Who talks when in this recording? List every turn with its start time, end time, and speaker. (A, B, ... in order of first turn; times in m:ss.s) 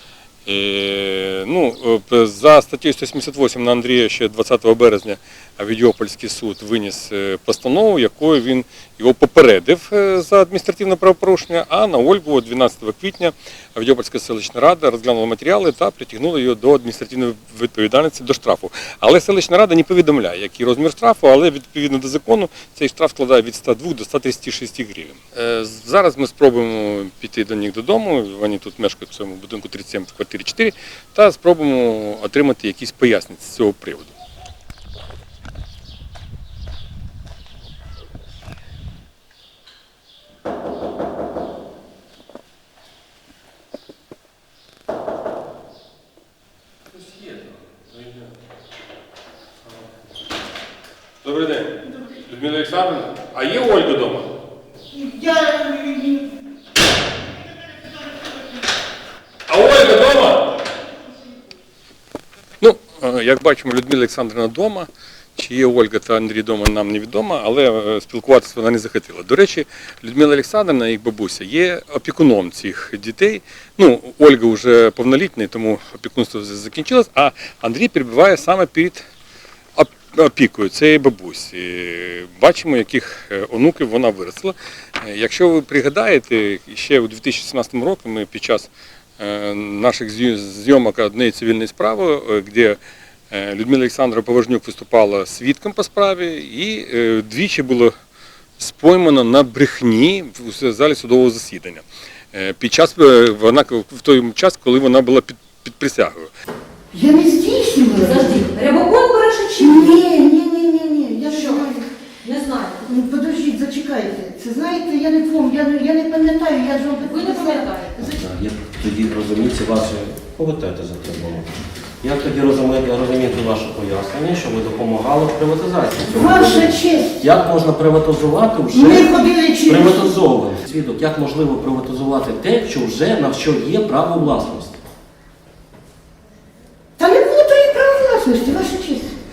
0:00.4-0:34.1 A
0:51.2-0:54.3 A
0:54.9-0:56.3 B
0:59.5-1:00.6 A
1:02.6-1:19.0 A
1:19.8-1:32.8 A
1:33.3-1:37.9 A
1:38.6-1:46.3 A
1:46.9-1:48.6 B
1:48.1-1:49.8 C
1:49.5-1:51.9 B
1:51.3-1:51.6 C
1:52.2-1:52.8 C
1:52.8-1:58.1 B
1:57.1-1:57.9 C
1:58.0-2:14.8 D
2:06.1-2:07.1 B
2:08.8-2:10.0 B
2:17.0-2:19.1 B